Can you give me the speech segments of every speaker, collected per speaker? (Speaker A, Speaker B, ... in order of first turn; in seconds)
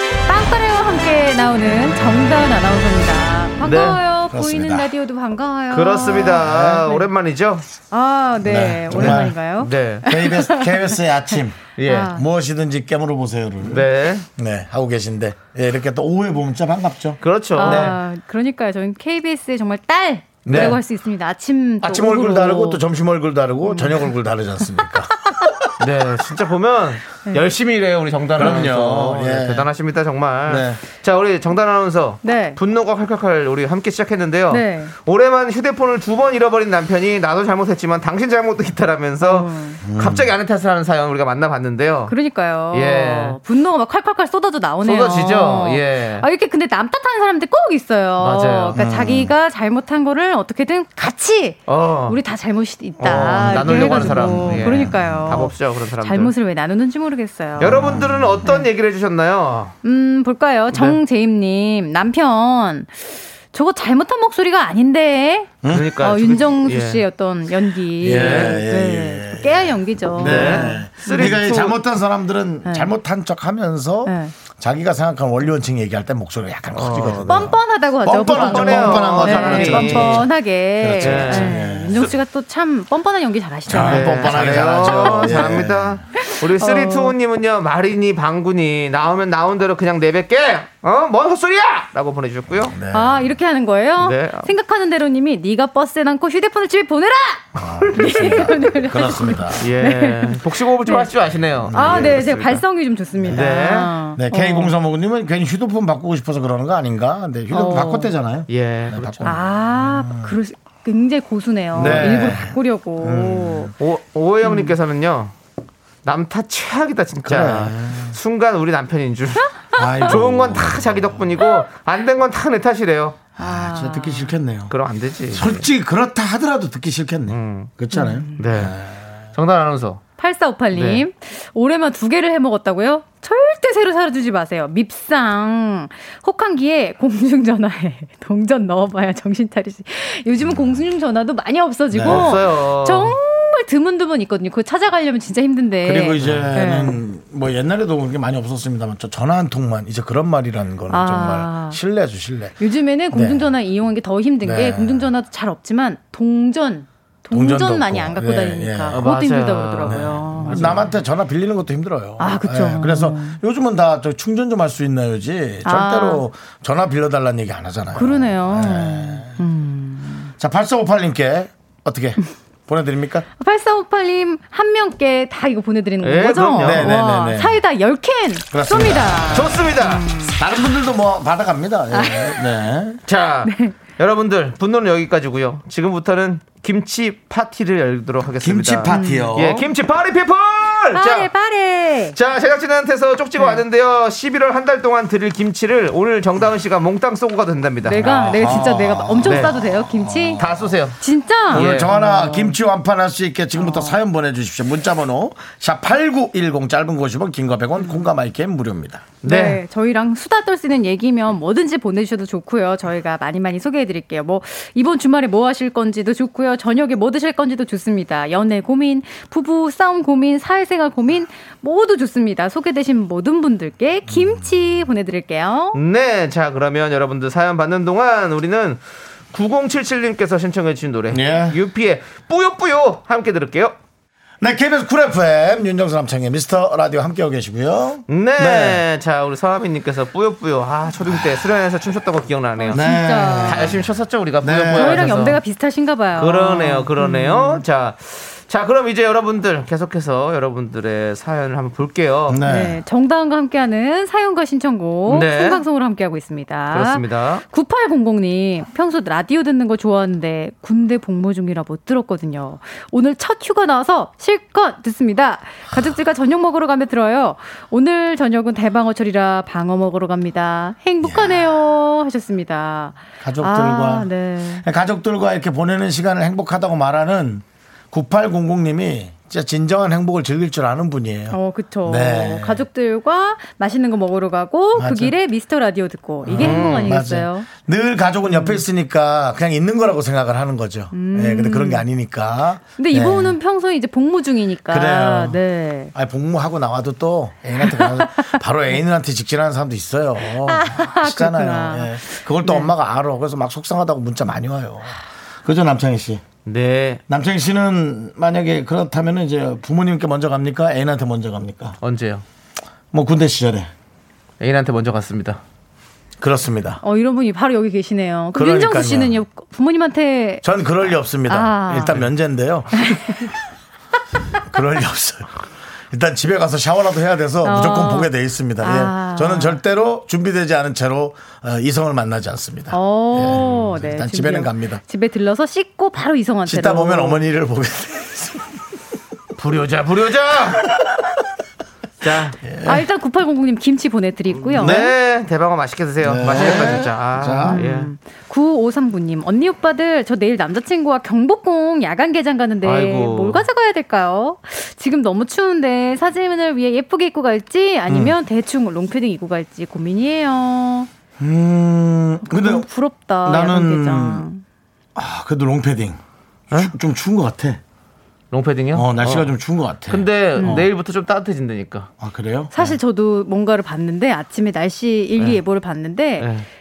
Speaker A: 0.3-7.0, 7.9-11.0, 11.8-12.2, 17.6-22.8, 23.6-24.0, 32.2-32.6, 34.5-34.9, 39.2-39.8, 42.1-58.6, 59.8-71.5, 72.6-72.9, 74.0-74.3, 77.3-85.5, 86.2-87.1, 92.9-101.1, 101.7-104.7, 107.5-108.1, 109.2-113.7, 114.4-114.7, 123.4-124.3, 127.9-128.4, 130.2-147.0, 150.9-151.8, 152.6-160.8, 162.2-163.4, 165.6-166.2, 167.9-170.3, 173.4-180.4, 181.9-182.4, 183.4-183.8, 188.9-189.3, 190.9-192.2, 193.4-193.6, 197.8-200.4, 201.0-202.6, 203.6-204.0, 207.8-208.1, 209.2-225.8, 242.6-243.7, 244.7-247.6, 252.4-274.6, 281.3-287.5, 288.2-288.6, 290.9-291.9, 292.8-295.9, 297.6-298.4, 300.3-302.7, 316.8-320.4, 321.3-322.0, 322.7-323.3, 327.4-329.6, 332.7-337.2, 342.6-344.8, 347.4-360.9, 362.2-364.4, 370.4-370.6, 372.5-376.3
Speaker B: 3.6-4.0, 5.7-7.7, 8.9-10.1, 11.8-12.1, 13.7-14.3, 17.2-18.0, 20.4-20.8, 25.8-42.1, 42.7-43.4, 44.8-46.3, 48.2-48.8, 51.7-52.2, 53.0-56.3, 57.6-59.8, 60.7-61.0, 65.7-67.0, 68.0-68.6, 70.2-71.8, 76.7-77.4, 78.3-80.3, 81.0-81.6, 83.7-92.8, 94.0-94.5, 99.6-102.6, 103.3-103.9, 108.5-109.3, 111.7-112.4, 113.8-115.3, 116.0-123.2, 124.7-125.7, 127.3-127.7, 128.4-128.8, 129.3-130.0, 130.7-131.0, 142.0-143.2, 158.9-160.9, 176.0-176.9, 179.3-180.0, 183.1-191.3, 192.1-198.6, 199.2-199.5, 200.4-201.0, 201.5-201.9, 209.2-209.6, 225.7-228.8, 229.3-233.7, 238.1-242.8, 243.5-245.4, 246.2-252.4, 255.1-255.6, 256.7-257.4, 286.4-286.9, 306.4-307.0, 311.8-312.2, 314.4-315.4, 333.2-333.7, 339.4-340.7, 342.0-342.4, 344.4-347.9, 352.6-353.4, 368.3-369.4, 369.9-371.9, 376.2-376.5
Speaker C: 4.3-4.9, 6.3-6.8, 8.4-9.3, 10.1-18.0, 20.4-20.8, 21.8-25.7, 28.4-29.7, 30.5-30.8, 39.8-40.3, 48.7-49.3, 53.0-55.4, 57.6-58.4, 65.6-65.9, 68.0-82.1, 83.7-86.0, 92.6-93.2, 97.5-99.7, 101.7-102.2, 103.2-103.4, 104.2-110.3, 111.7-113.7, 117.2-118.2, 119.8-121.3, 123.4-124.7, 125.3-129.1, 141.9-142.4, 145.8-152.6, 153.1-153.5, 154.4-155.1, 157.3-159.1, 159.8-169.4, 170.4-173.3, 176.6-177.6, 178.5-179.7, 180.3-183.0, 188.4-189.7, 198.0-200.7, 201.5-209.1, 231.1-231.6, 234.4-238.8, 242.7-243.8, 244.4-245.1, 252.3-252.8, 271.0-271.4, 273.2-282.6, 284.8-285.1, 286.2-293.4, 294.7-295.4, 295.9-306.2, 307.1-311.8, 312.9-313.7, 316.2-316.8, 318.3-319.2, 320.4-323.3, 324.4-325.4, 325.9-334.8, 336.4-338.6, 340.7-341.1, 342.4-342.8, 344.5-344.9, 346.0-347.6, 357.9-358.1, 361.2-362.7, 363.2-364.3, 364.9-366.0, 366.5-367.6, 368.7-370.7, 372.0-372.8